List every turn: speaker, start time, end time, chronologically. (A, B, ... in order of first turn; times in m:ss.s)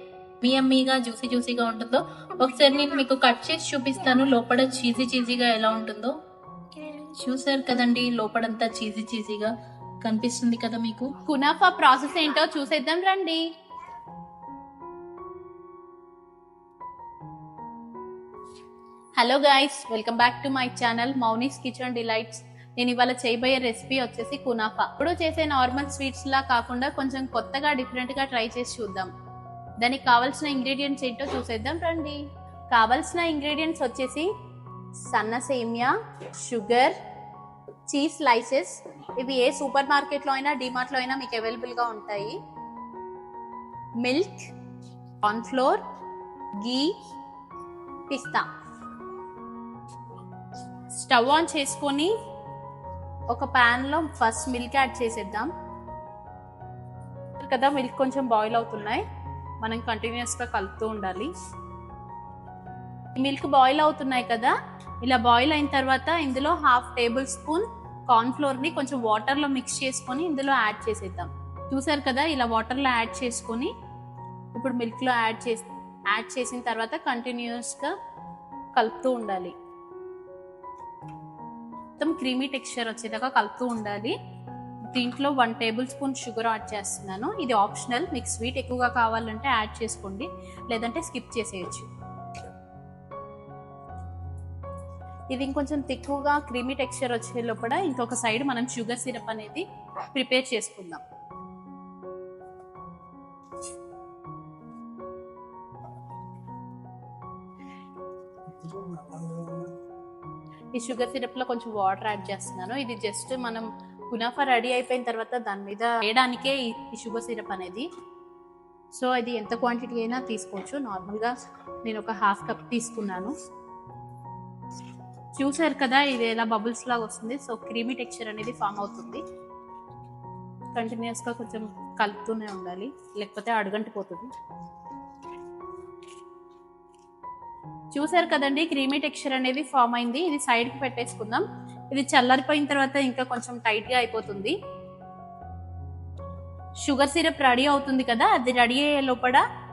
0:00.4-0:06.1 A
0:07.0-0:11.1 A
0:11.3-0:13.4 B
0:12.0-0:12.3 A
0:19.2-0:29.1 B
0:19.9-0:20.8 A
0:29.8-0:32.2 B
0:32.7-0:34.3 B
0:35.1-0:35.9 B
0:36.4-0:36.9 B
0:37.9-0:42.4 B
0:44.0-0:44.5 B
0:45.2-0:45.8 B
0:46.6-0:46.9 B
0:48.1-0:48.4 B
0:50.9-0:52.1 B
0:53.3-0:55.5 B
0:57.4-0:59.0 B
0:59.6-1:01.3 B
1:03.1-1:04.5 B
1:05.0-1:13.7 B
1:14.5-1:17.9 B
1:18.8-1:19.5 B
1:22.0-1:24.1 B
1:24.9-1:31.9 B
1:35.3-1:39.6 B
1:40.1-1:41.0 B
1:50.8-1:57.8 B
1:58.9-2:01.3 B
2:01.8-2:03.3 B
2:05.4-2:09.2 B
2:10.7-2:14.3 B
2:17.9-2:24.6 B
2:26.8-2:29.4 B